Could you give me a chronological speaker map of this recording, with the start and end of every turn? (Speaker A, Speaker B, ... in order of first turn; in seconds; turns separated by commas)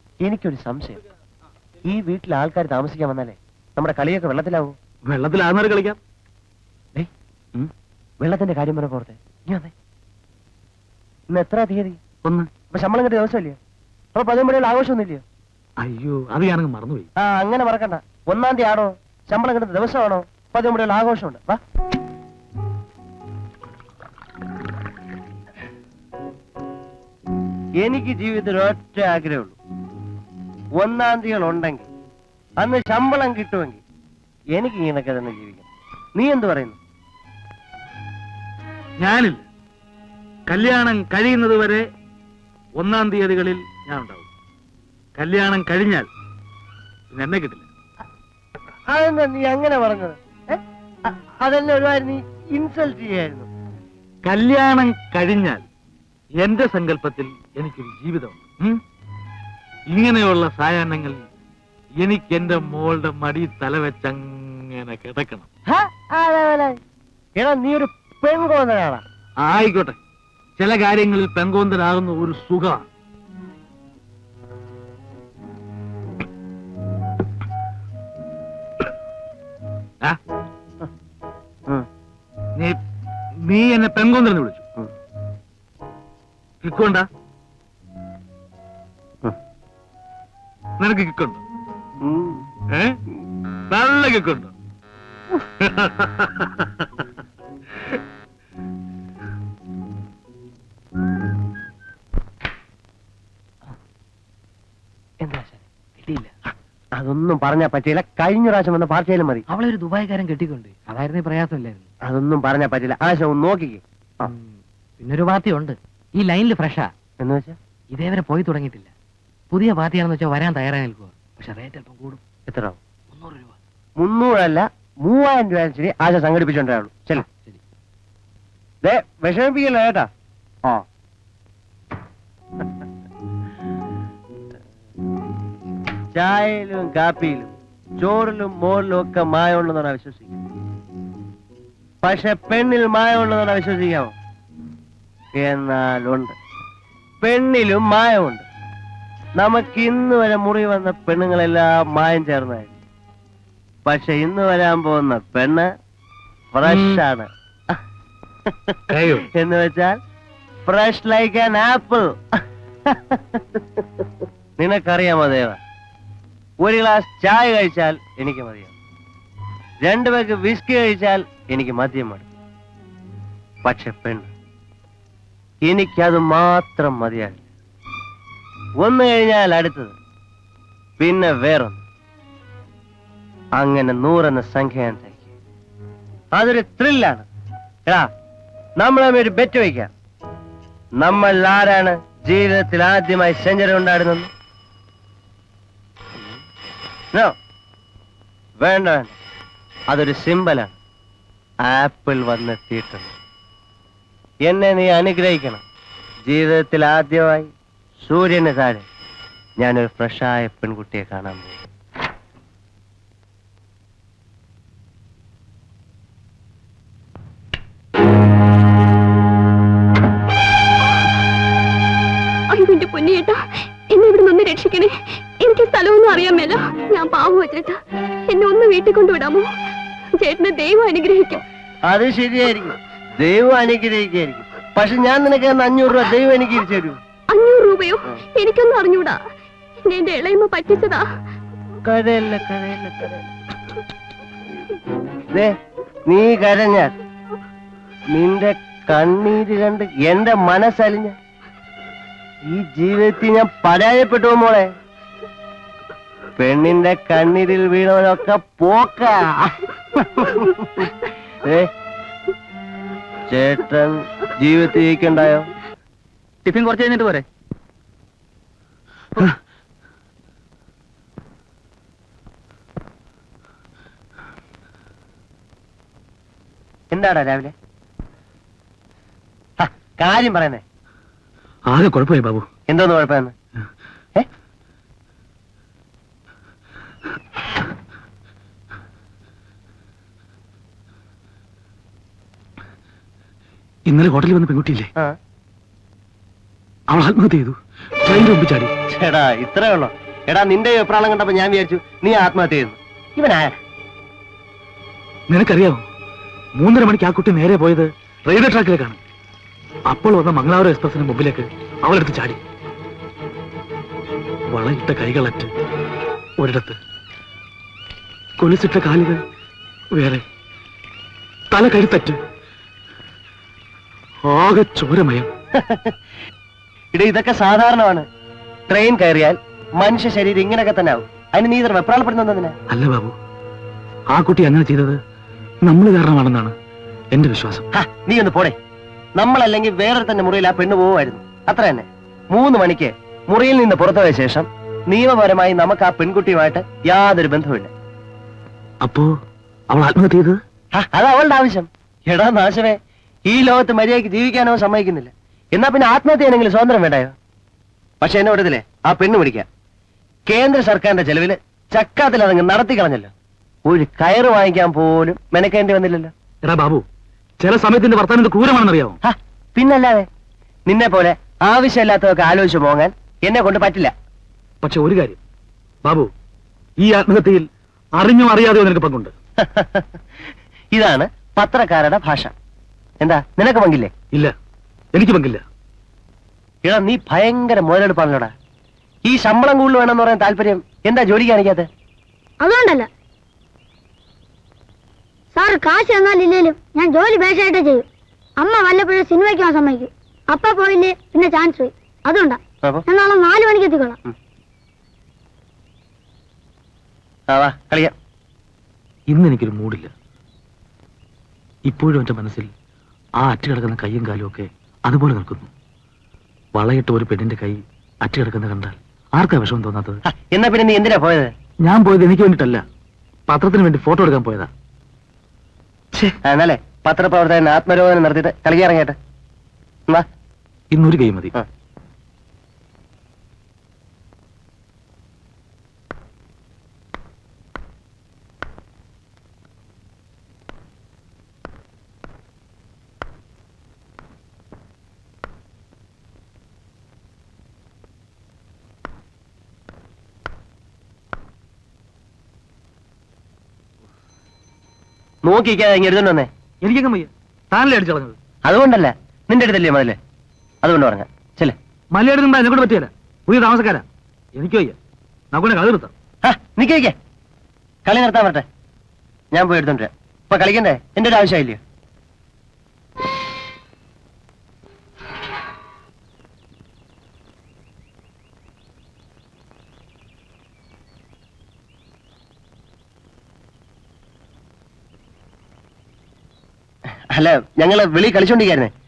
Speaker A: 0.2-1.0, Speaker A: 1.9-4.8, Speaker B: 5.1-6.0, Speaker A: 8.2-9.7, Speaker A: 11.3-12.0, Speaker B: 12.2-12.5, Speaker A: 12.7-13.6, Speaker A: 14.2-15.2, Speaker B: 15.8-17.1, Speaker A: 17.2-21.6, Speaker A: 27.8-29.6, Speaker A: 30.8-31.9, Speaker A: 32.6-33.8, Speaker A: 34.5-35.6, Speaker A: 36.2-36.8, Speaker B: 39.0-39.4, Speaker B: 40.5-41.8, Speaker B: 42.8-44.3, Speaker B: 45.2-46.1, Speaker B: 47.1-47.6, Speaker A: 48.9-53.5, Speaker B: 54.2-55.6, Speaker B: 56.4-58.8, Speaker B: 59.9-61.2, Speaker B: 62.0-65.5, Speaker A: 65.7-66.8, Speaker A: 67.4-69.0, Speaker B: 69.4-70.0, Speaker B: 70.6-72.8, Speaker B: 83.5-84.6, Speaker B: 86.6-87.1, Speaker B: 90.8-91.4, Speaker A: 92.0-92.4, Speaker B: 92.7-93.0, Speaker B: 93.7-94.5, Speaker B: 95.6-96.7, Speaker C: 106.0-106.3, Speaker A: 107.0-109.5, Speaker C: 109.5-111.8, Speaker A: 112.1-114.3, Speaker C: 115.0-116.9, Speaker A: 117.2-117.6, Speaker C: 117.9-118.9, Speaker C: 119.5-122.2, Speaker A: 122.5-122.8, Speaker C: 123.2-123.5, Speaker A: 124.0-127.3, Speaker A: 128.8-130.1, Speaker A: 136.2-140.4, Speaker A: 142.0-144.1, Speaker A: 145.4-146.3, Speaker A: 147.2-148.4, Speaker A: 149.4-152.7, Speaker A: 153.9-155.7, Speaker A: 156.5-157.8, Speaker B: 156.7-157.0, Speaker A: 158.5-158.8, Speaker B: 158.9-159.3, Speaker A: 159.3-160.0, Speaker A: 160.7-163.6, Speaker A: 164.6-165.6, Speaker A: 166.6-168.7, Speaker A: 169.8-172.3, Speaker A: 173.7-174.3, Speaker A: 175.7-177.4, Speaker A: 178.8-179.9, Speaker A: 181.0-181.8, Speaker A: 183.6-185.2, Speaker A: 186.3-187.3, Speaker A: 188.8-189.9, Speaker A: 191.0-194.3, Speaker A: 198.6-199.2, Speaker A: 199.9-200.8, Speaker A: 201.6-203.1, Speaker A: 204.5-205.6, Speaker A: 206.3-207.5, Speaker A: 208.0-208.8, Speaker A: 209.6-211.6, Speaker D: 222.5-223.4, Speaker D: 223.9-229.4, Speaker D: 230.2-231.4, Speaker A: 231.9-237.0, Speaker D: 237.3-239.2, Speaker D: 239.9-241.1, Speaker A: 241.8-243.2, Speaker A: 246.1-246.9, Speaker A: 248.1-251.2, Speaker A: 252.5-254.7, Speaker A: 256.4-260.9, Speaker A: 261.4-261.7, Speaker A: 263.3-265.5, Speaker A: 276.9-277.5, Speaker A: 279.6-280.6, Speaker B: 281.7-282.5, Speaker A: 282.7-283.3, Speaker B: 293.9-294.9, Speaker B: 296.9-298.7, Speaker A: 298.9-303.6, Speaker B: 305.3-305.8, Speaker B: 306.6-309.0, Speaker B: 309.9-312.4, Speaker B: 314.5-315.5, Speaker B: 316.4-316.8, Speaker B: 318.4-319.2, Speaker B: 319.9-320.2, Speaker B: 321.5-322.2, Speaker B: 324.3-325.3, Speaker A: 325.6-325.9, Speaker A: 326.9-328.1, Speaker A: 328.7-332.5, Speaker B: 332.7-333.1, Speaker B: 334.1-335.0, Speaker B: 335.6-336.6, Speaker B: 337.1-337.6, Speaker A: 337.7-338.6, Speaker A: 339.2-347.7, Speaker B: 348.8-349.1, Speaker B: 349.7-350.4, Speaker A: 350.8-357.1, Speaker A: 358.0-359.5, Speaker A: 360.3-363.1, Speaker A: 363.7-366.1, Speaker B: 366.4-366.8, Speaker B: 367.4-369.0, Speaker A: 369.0-370.1, Speaker A: 370.7-373.9, Speaker B: 374.6-375.2, Speaker B: 375.9-376.1, Speaker B: 376.8-379.1, Speaker A: 379.4-379.9, Speaker A: 380.7-382.3, Speaker A: 383.0-383.9, Speaker B: 384.9-385.4, Speaker A: 386.6-388.3, Speaker A: 389.1-391.7, Speaker E: 392.4-392.9, Speaker E: 395.3-397.9, Speaker E: 398.4-404.0, Speaker A: 407.3-407.9, Speaker B: 409.1-409.9, Speaker B: 411.7-412.5, Speaker B: 413.2-415.5, Speaker B: 416.6-420.0, Speaker A: 420.3-421.3, Speaker B: 421.6-422.6, Speaker B: 423.3-424.5, Speaker A: 426.2-429.0, Speaker B: 430.7-431.3, Speaker A: 455.2-456.3, Speaker B: 456.6-458.2, Speaker A: 458.4-460.0, Speaker A: 460.6-461.6, Speaker B: 461.9-464.8, Speaker B: 465.3-465.9, Speaker A: 466.2-467.0, Speaker A: 467.9-468.4, Speaker A: 469.3-471.6, Speaker A: 487.1-488.7